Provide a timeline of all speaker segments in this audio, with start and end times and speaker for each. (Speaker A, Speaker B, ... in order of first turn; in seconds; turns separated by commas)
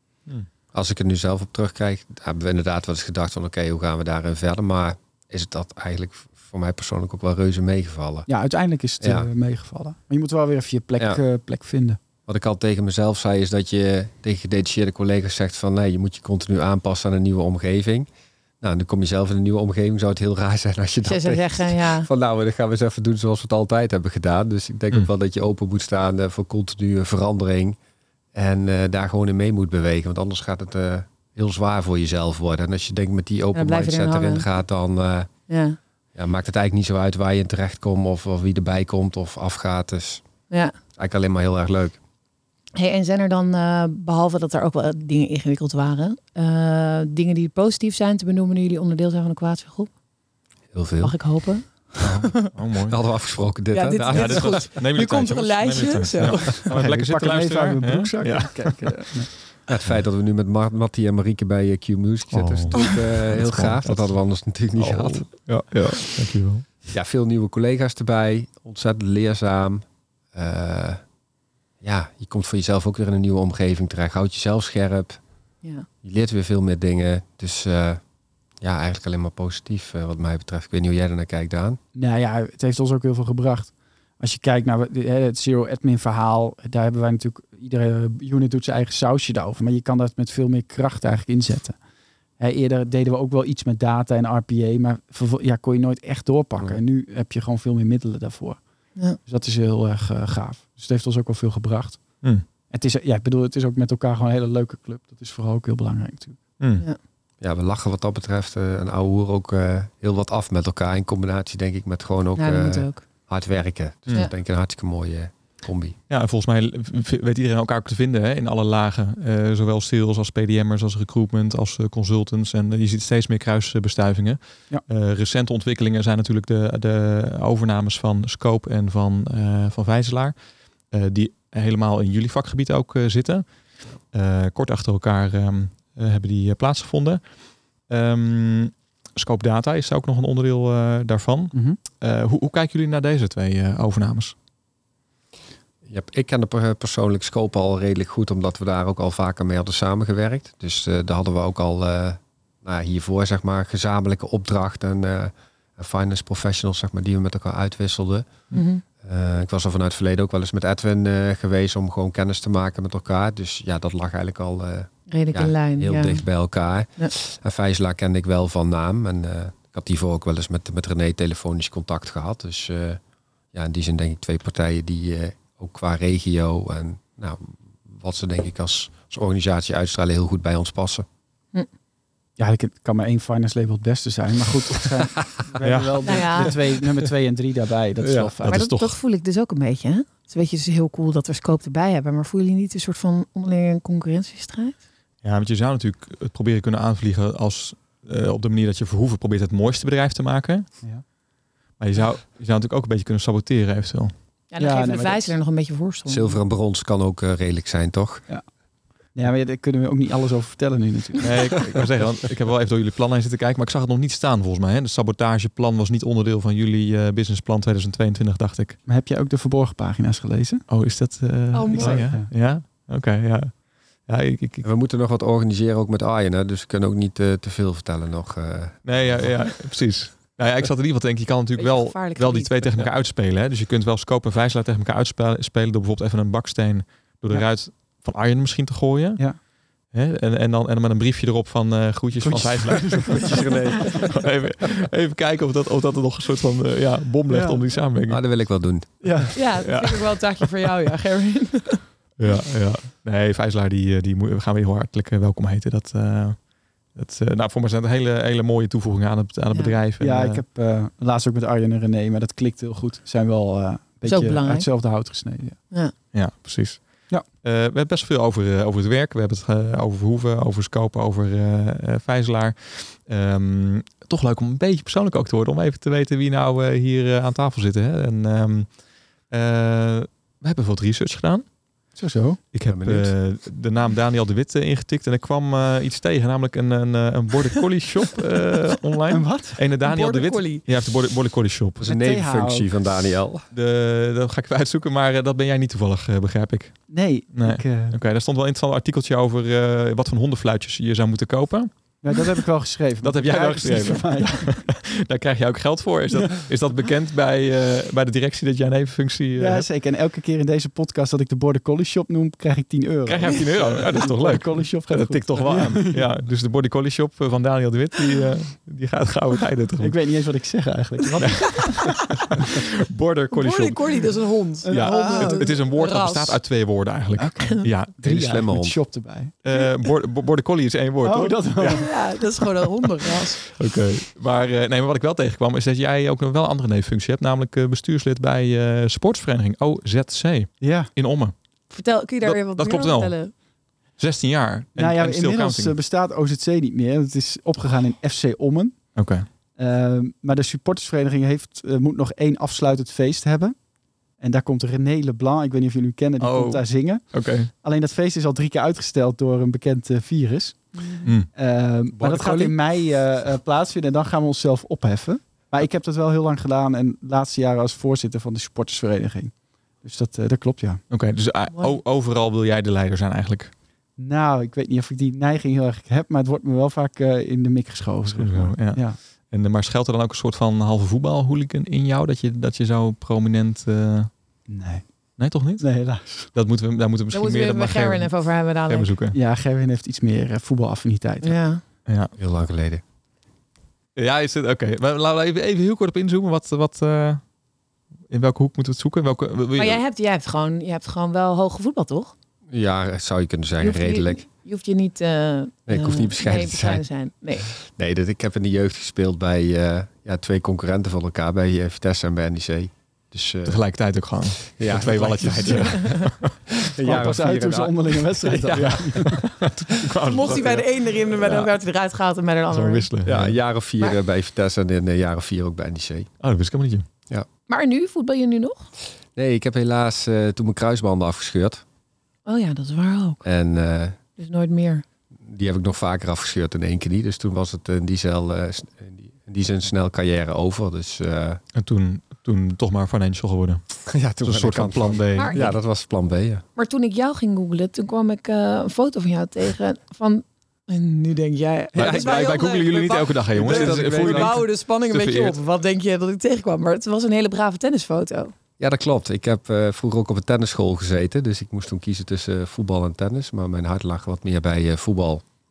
Speaker A: 0.7-8.3, Speaker B: 8.3-12.0, Speaker A: 9.0-9.3, Speaker A: 12.3-18.1, Speaker A: 18.6-27.8, Speaker C: 21.0-22.1, Speaker A: 28.3-35.3, Speaker C: 33.5-34.5, Speaker C: 35.5-35.8, Speaker A: 36.1-40.2, Speaker C: 40.5-40.8, Speaker A: 41.0-42.0, Speaker C: 42.8-49.9, Speaker A: 50.7-51.2, Speaker C: 51.0-52.3, Speaker A: 52.0-54.7, Speaker D: 52.5-53.0, Speaker C: 53.7-56.7, Speaker D: 54.1-59.0, Speaker B: 56.7-59.3, Speaker A: 59.7-65.3, Speaker D: 62.3-64.2, Speaker D: 64.8-66.8, Speaker A: 66.9-71.0, Speaker A: 71.8-75.2, Speaker A: 76.0-78.0, Speaker A: 78.6-81.8, Speaker B: 82.0-91.8, Speaker B: 92.4-98.6, Speaker B: 99.2-102.0, Speaker B: 102.7-106.4, Speaker D: 106.6-106.9, Speaker A: 107.4-116.0, Speaker C: 112.4-113.0, Speaker D: 116.1-130.4, Speaker D: 130.9-133.5, Speaker D: 134.1-137.2, Speaker D: 137.9-144.3, Speaker B: 141.5-141.8, Speaker A: 145.9-158.5, Speaker C: 158.5-158.8, Speaker A: 159.0-173.0, Speaker C: 165.1-166.2, Speaker A: 173.5-181.1, Speaker B: 182.4-188.6, Speaker D: 185.6-186.5, Speaker C: 186.1-186.6, Speaker D: 188.4-189.0, Speaker C: 188.5-194.8, Speaker D: 195.2-200.7, Speaker D: 201.8-204.1, Speaker C: 204.5-206.4, Speaker B: 204.6-205.4, Speaker A: 206.1-208.2, Speaker B: 209.2-211.6, Speaker D: 211.2-218.8, Speaker B: 218.9-220.7, Speaker D: 220.7-224.7, Speaker C: 221.5-222.0, Speaker B: 221.7-222.3, Speaker A: 224.6-229.3, Speaker D: 228.8-239.3, Speaker C: 231.6-232.9, Speaker D: 239.9-248.2, Speaker B: 242.2-243.9, Speaker A: 243.2-244.1, Speaker B: 247.3-247.6, Speaker A: 248.1-249.2, Speaker B: 249.0-249.3, Speaker C: 249.3-251.8, Speaker D: 249.6-250.7, Speaker D: 252.2-260.4, Speaker B: 260.0-265.6, Speaker C: 264.0-264.7, Speaker D: 266.1-278.7, Speaker D: 279.3-281.4, Speaker B: 282.0-282.4, Speaker D: 282.5-291.8, Speaker A: 282.7-283.1, Speaker B: 289.1-289.6, Speaker C: 289.8-290.6, Speaker A: 291.8-293.5, Speaker B: 291.8-292.7, Speaker D: 293.5-302.3, Speaker B: 296.9-298.0, Speaker B: 302.0-304.6, Speaker D: 303.0-309.7, Speaker B: 309.4-316.1, Speaker D: 313.1-320.0, Speaker B: 319.8-322.0, Speaker D: 321.2-324.1, Speaker C: 323.3-326.4, Speaker B: 324.6-325.5, Speaker D: 324.7-327.9, Speaker B: 327.2-329.3, Speaker A: 328.0-328.8, Speaker D: 329.4-332.1, Speaker B: 331.0-332.0, Speaker C: 331.7-333.5, Speaker D: 333.5-341.3, Speaker B: 340.6-340.9, Speaker C: 341.7-343.3, Speaker D: 342.2-343.3, Speaker D: 344.0-345.8, Speaker B: 344.8-348.8, Speaker D: 348.9-349.3, Speaker B: 349.6-353.6, Speaker B: 354.2-360.7, Speaker D: 356.2-357.5, Speaker C: 360.8-361.1, Speaker D: 361.0-361.3, Speaker B: 361.3-370.8, Speaker A: 362.0-362.5, Speaker D: 370.9-373.5, Speaker C: 371.5-371.8, Speaker B: 374.0-379.0, Speaker D: 378.1-384.1, Speaker B: 384.5-384.9, Speaker D: 385.2-389.2, Speaker B: 385.6-386.3, Speaker C: 387.1-388.9, Speaker B: 389.1-391.4, Speaker C: 391.2-391.6, Speaker D: 391.9-392.1, Speaker A: 392.2-392.8, Speaker D: 394.0-397.2, Speaker D: 398.1-399.8, Speaker C: 399.6-402.1, Speaker A: 402.5-404.2, Speaker C: 403.6-407.5, Speaker A: 405.7-406.9, Speaker A: 407.4-413.6, Speaker D: 413.4-416.5, Speaker A: 414.6-415.9, Speaker C: 415.5-416.0, Speaker A: 416.6-418.7, Speaker B: 416.8-419.3, Speaker D: 418.5-421.5, Speaker C: 420.0-422.9, Speaker D: 422.5-423.4, Speaker A: 423.1-426.1, Speaker D: 426.2-426.9, Speaker C: 427.5-428.7, Speaker A: 429.1-431.6, Speaker C: 432.3-433.2, Speaker A: 433.2-434.0, Speaker C: 434.2-434.9, Speaker A: 435.2-441.4, Speaker D: 441.6-445.5, Speaker A: 443.9-446.4, Speaker C: 445.2-445.6, Speaker C: 446.6-458.3, Speaker D: 451.7-455.4, Speaker A: 451.8-452.5, Speaker A: 453.3-454.3, Speaker A: 458.6-465.2